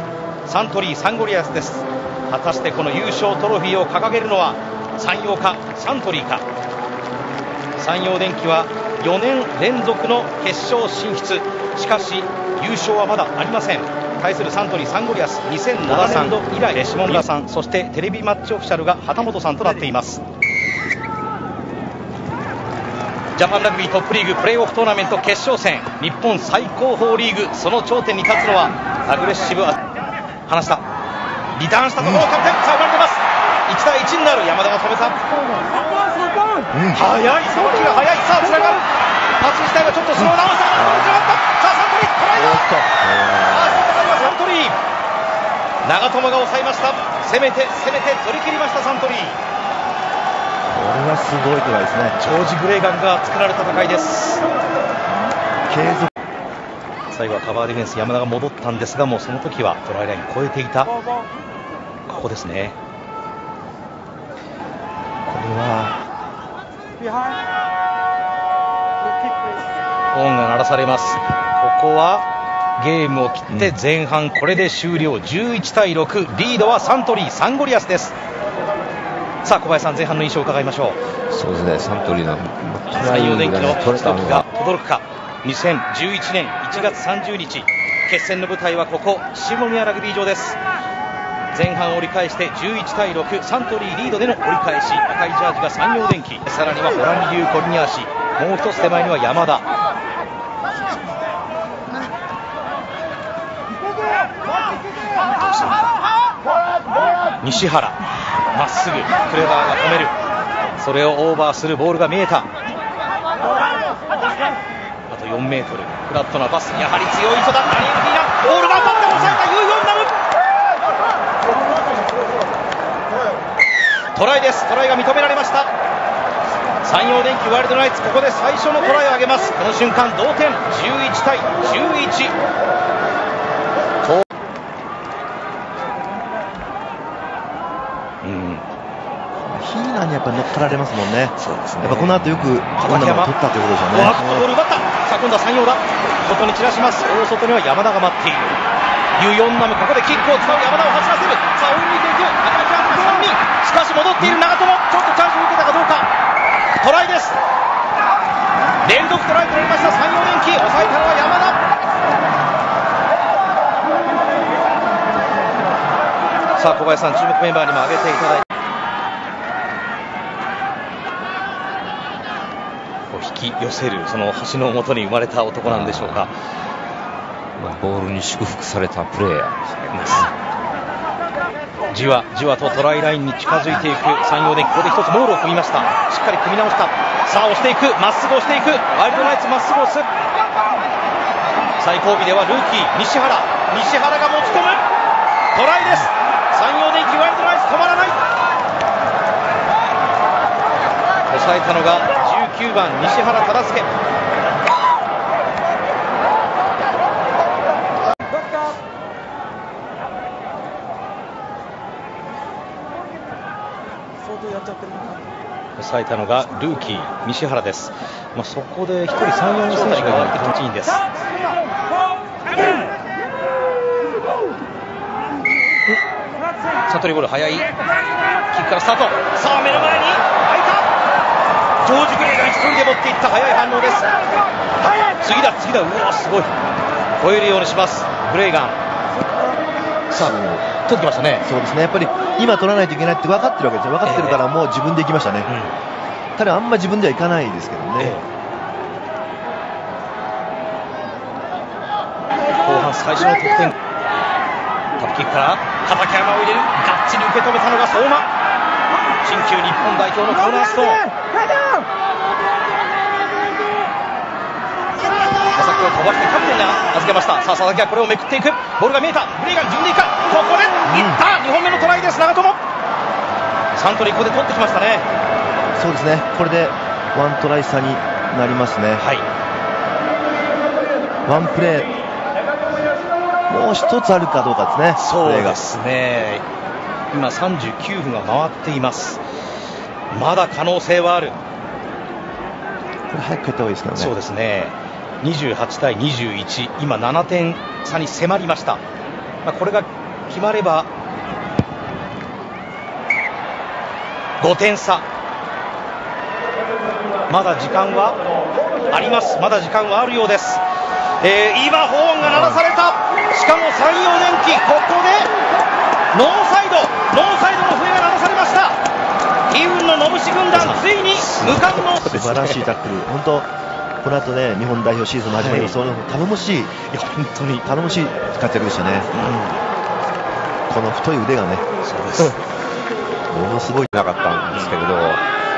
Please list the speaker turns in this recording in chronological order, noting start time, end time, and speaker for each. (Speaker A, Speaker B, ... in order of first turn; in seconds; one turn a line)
Speaker A: 0.5-6.4
Speaker A: 7.8-20.2
Speaker B: 15.9-16.4
Speaker A: 23.4-29.8
Speaker A: 30.5-30.8
Speaker A: 31.6-35.2
Speaker B: 36.7-37.0
Speaker A: 36.9-38.8
Speaker A: 39.4-42.7
Speaker B: 40.7-41.4
Speaker B: 42.3-43.4
Speaker A: 43.4-44.8
Speaker A: 45.8-49.4
Speaker B: 50.7-52.2
Speaker A: 52.2-54.4
Speaker B: 55.7-56.1
Speaker A: 57.1-60.9
Speaker A: 62.1-62.8
Speaker B: 65.2-66.0
Speaker A: 70.1-72.2
Speaker A: 72.8-78.2
Speaker A: 79.4-81.0
Speaker C: 81.3-84.4
Speaker A: 83.0-90.6
Speaker A: 91.5-99.6
Speaker A: 105.3-105.9
Speaker A: 107.4-110.1
Speaker A: 110.8-112.5
Speaker A: 115.1-120.1
Speaker A: 124.1-125.7
Speaker A: 126.8-132.3
Speaker A: 138.2-138.6
Speaker B: 139.4-144.4
Speaker A: 141.4-142.1
Speaker A: 142.8-143.3
Speaker A: 143.9-148.6
Speaker A: 149.2-156.1
Speaker A: 156.8-157.4
Speaker A: 158.8-161.6
Speaker A: 166.6-168.4
Speaker A: 173.1-176.3
Speaker C: 175.6-176.2
Speaker C: 177.6-180.3
Speaker A: 179.9-180.2
Speaker A: 181.9-190.1
Speaker A: 191.8-194.8
Speaker A: 195.5-198.2
Speaker A: 201.3-203.9
Speaker A: 215.8-221.0
Speaker B: 219.8-220.5
Speaker A: 226.9-227.7
Speaker A: 228.5-230.9
Speaker A: 231.8-234.1
Speaker A: 234.9-236.5
Speaker A: 237.2-238.8
Speaker A: 240.1-241.4
Speaker B: 240.2-240.6
Speaker B: 241.4-245.5
Speaker A: 244.0-244.4
Speaker A: 245.4-245.7
Speaker B: 246.3-248.2
Speaker A: 248.0-248.2
Speaker A: 252.6-253.8
Speaker A: 255.0-258.3
Speaker A: 259.2-261.1
Speaker A: 265.5-272.6
Speaker B: 270.9-271.2
Speaker A: 273.7-275.1
Speaker B: 275.8-279.0
Speaker A: 279.0-279.2
Speaker B: 281.2-281.9
Speaker B: 283.5-285.6
Speaker A: 284.9-286.4
Speaker A: 287.1-289.2
Speaker A: 290.1-291.4
Speaker B: 293.1-294.1
Speaker A: 293.9-298.8
Speaker A: 299.4-300.9
Speaker A: 304.4-305.0
Speaker A: 307.3-308.2
Speaker A: 308.9-310.6
Speaker A: 311.2-315.3
Speaker A: 316.1-318.8
Speaker A: 319.5-322.7
Speaker B: 321.4-323.5
Speaker B: 324.0-326.7
Speaker A: 325.3-325.8
Speaker A: 326.9-327.6
Speaker B: 327.6-329.2
Speaker A: 329.1-329.6
Speaker B: 330.7-331.6
Speaker A: 331.8-332.4
Speaker B: 333.3-333.9
Speaker C: 333.9-335.2